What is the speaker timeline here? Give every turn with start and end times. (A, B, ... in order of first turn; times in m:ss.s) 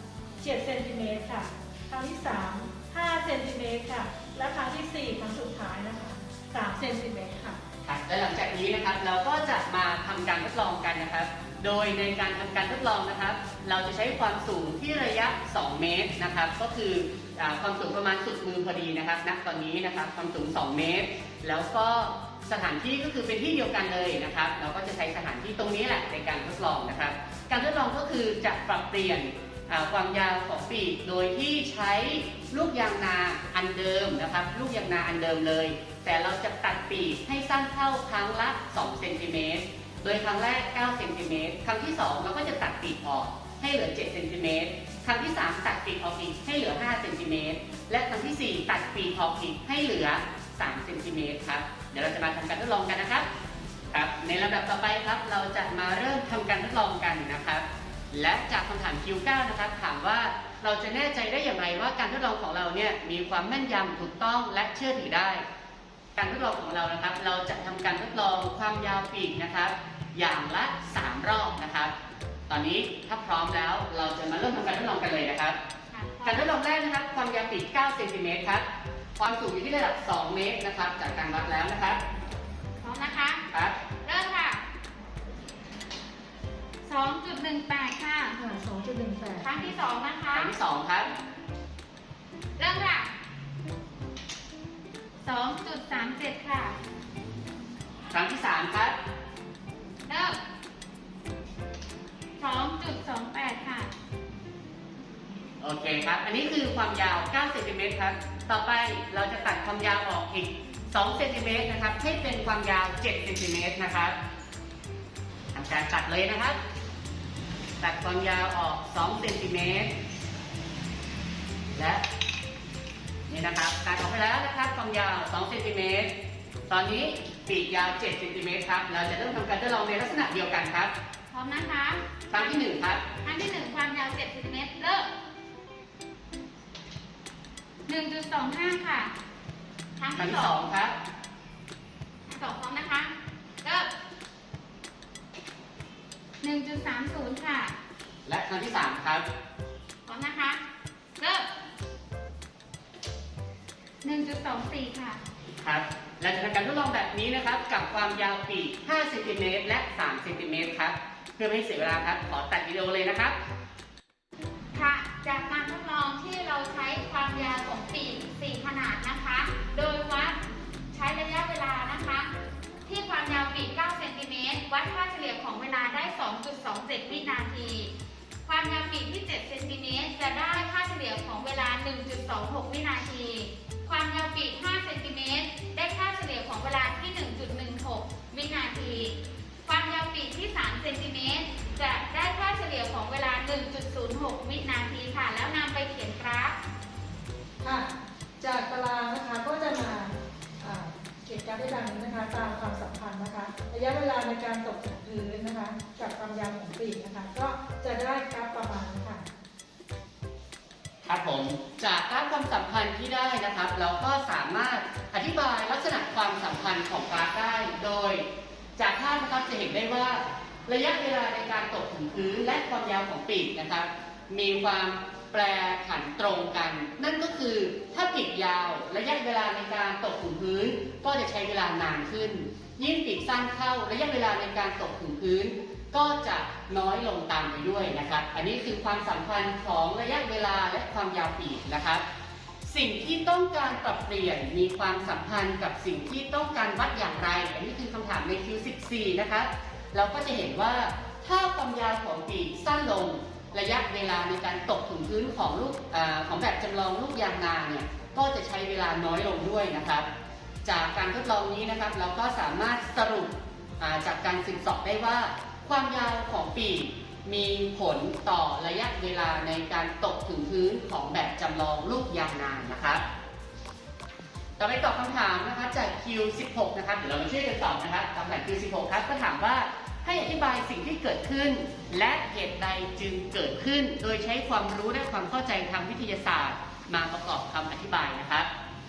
0:00.4-0:07.6 A
0:07.8-0:53.3 B
0:53.9-1:05.4 B
1:06.2-1:11.9 B
1:12.5-1:15.6 B
1:15.9-1:16.5 C
1:16.2-1:18.6 B
1:19.2-1:22.0 B
1:22.8-1:23.4 C
1:23.5-1:23.8 B
1:24.0-1:24.6 C
1:26.8-1:28.4 C
1:28.4-1:29.7 A
1:29.4-1:30.5 C
1:30.3-1:31.1 B
1:32.6-1:33.1 C
1:35.2-1:36.7 C
1:38.1-1:39.0 B
1:40.1-1:40.4 C
1:42.4-1:43.9 C
1:45.6-1:54.1 B
1:55.5-1:56.6 B
1:57.8-1:59.9 B
2:01.7-2:02.0 B
2:03.3-2:06.1 B
2:06.7-2:10.9 B
2:11.3-2:12.6 C
2:12.3-2:13.0 B
2:13.2-2:15.1 C
2:17.9-2:19.1 C
2:20.0-2:20.6 C
2:20.2-2:20.9 B
2:22.3-2:23.9 C
2:26.4-2:27.7 C
2:28.2-2:29.2 B
2:30.0-2:30.6 C
2:31.2-2:31.5 C
2:34.0-2:35.2 C
2:35.6-2:43.4 B
2:44.7-2:50.4 C
2:50.9-2:52.3 C
2:52.8-2:57.9 C
2:58.4-3:09.1 C
3:09.6-3:16.6 C
3:17.6-3:29.3 A
3:31.0-3:38.2 B
3:38.8-4:02.0 B
4:02.6-4:20.0 B
4:20.6-4:33.0 B
4:34.6-4:48.5 B